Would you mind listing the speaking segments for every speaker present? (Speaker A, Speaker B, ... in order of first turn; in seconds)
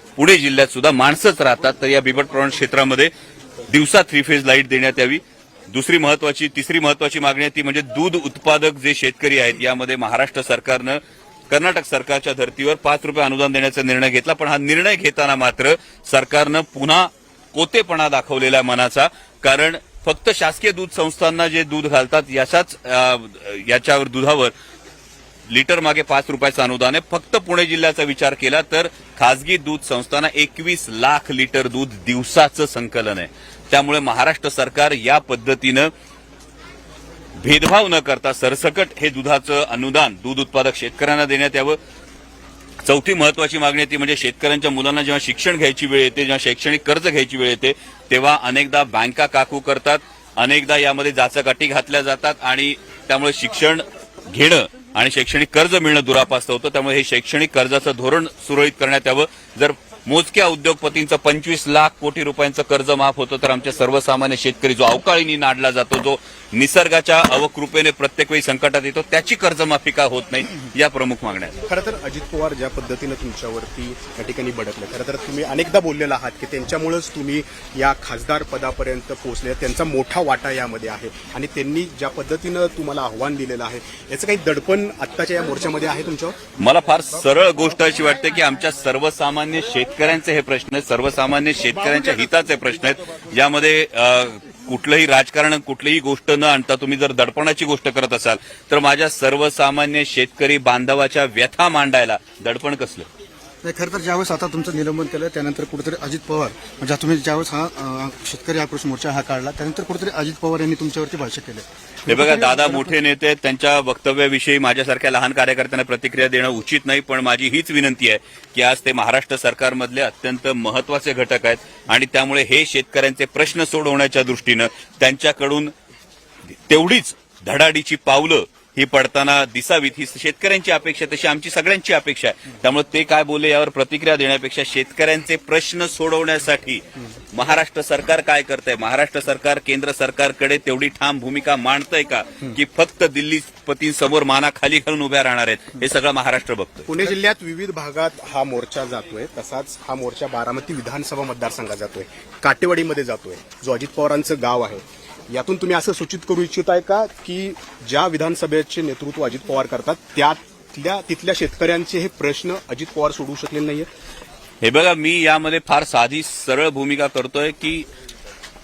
Speaker A: 0.2-3.1, 3.7-24.5, 25.5-35.9, 37.4-41.8, 42.8-71.6, 86.6-103.1, 112.1-125.7, 126.5-146.9, 164.6-167.9
Speaker B: 71.7-86.4, 146.9-163.9
Speaker C: 103.6-112.9